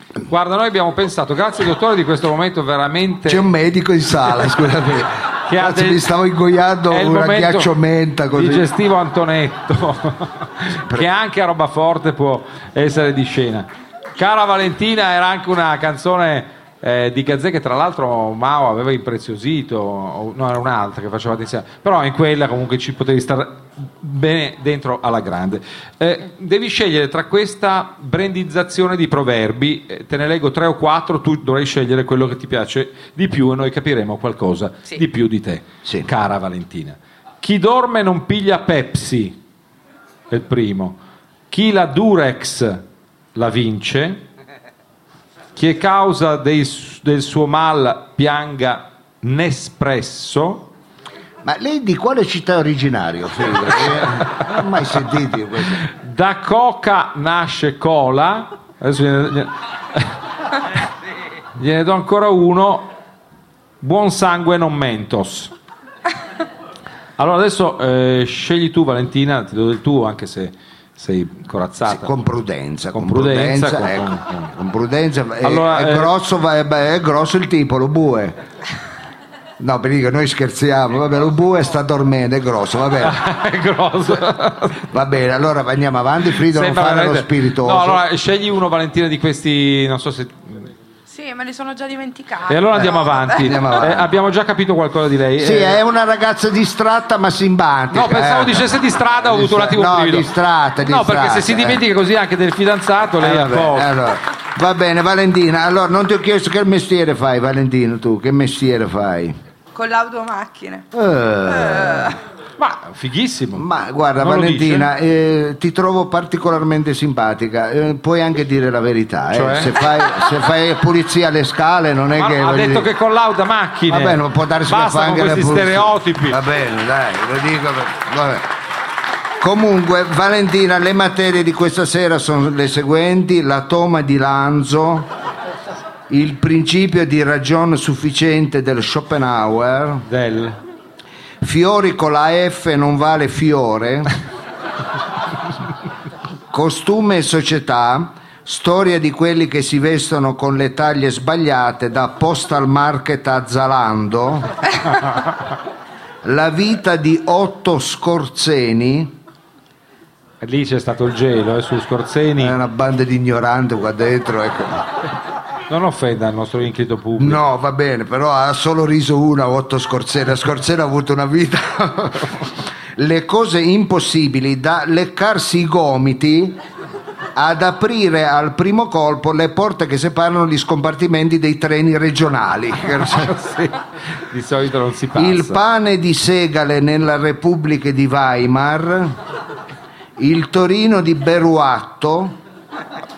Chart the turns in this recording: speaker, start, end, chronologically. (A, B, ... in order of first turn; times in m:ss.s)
0:00.3-0:03.5 A
0:03.3-0:08.7 B
0:05.5-0:06.0 A
0:06.9-0:07.7 A
0:08.3-0:39.4 A
0:40.3-0:41.0 A
0:41.5-0:42.8 A
0:43.3-0:44.2 A
0:45.6-0:50.7 A
0:51.4-0:55.8 B
0:55.8-1:00.1 A
1:01.6-1:02.9 A
1:03.8-1:05.5 A
1:07.2-1:12.1 A
1:11.9-1:18.4 B
1:12.9-1:14.5 A
1:15.4-1:16.1 A
1:19.6-1:23.2 B
1:23.0-1:24.8 A
1:24.9-1:28.0 B
1:26.5-1:30.7 A
1:31.1-1:33.4 C
1:32.5-1:35.8 A
1:32.8-1:34.1 B
1:35.4-1:41.8 B
1:37.9-1:40.3 A
1:40.8-1:43.9 A
1:43.2-1:49.4 B
1:49.7-1:50.8 C
1:50.9-1:52.2 B
1:51.6-1:52.1 C
1:52.6-1:53.7 A
1:53.5-2:02.9 B
1:54.2-1:54.9 A
1:59.3-1:59.7 A
2:02.2-2:06.4 A
2:03.9-2:08.5 B
2:09.4-2:15.1 B
2:16.1-2:20.0 B
2:20.1-2:20.6 A
2:21.4-2:24.1 B
2:26.5-2:34.5 B
2:36.2-2:39.1 B
2:40.4-2:42.6 A
2:42.4-2:44.8 B
2:45.7-2:47.4 A
2:47.2-2:56.6 B
2:57.3-3:03.4 B
3:03.0-3:05.6 A
3:05.2-3:09.2 B
3:10.2-3:12.4 B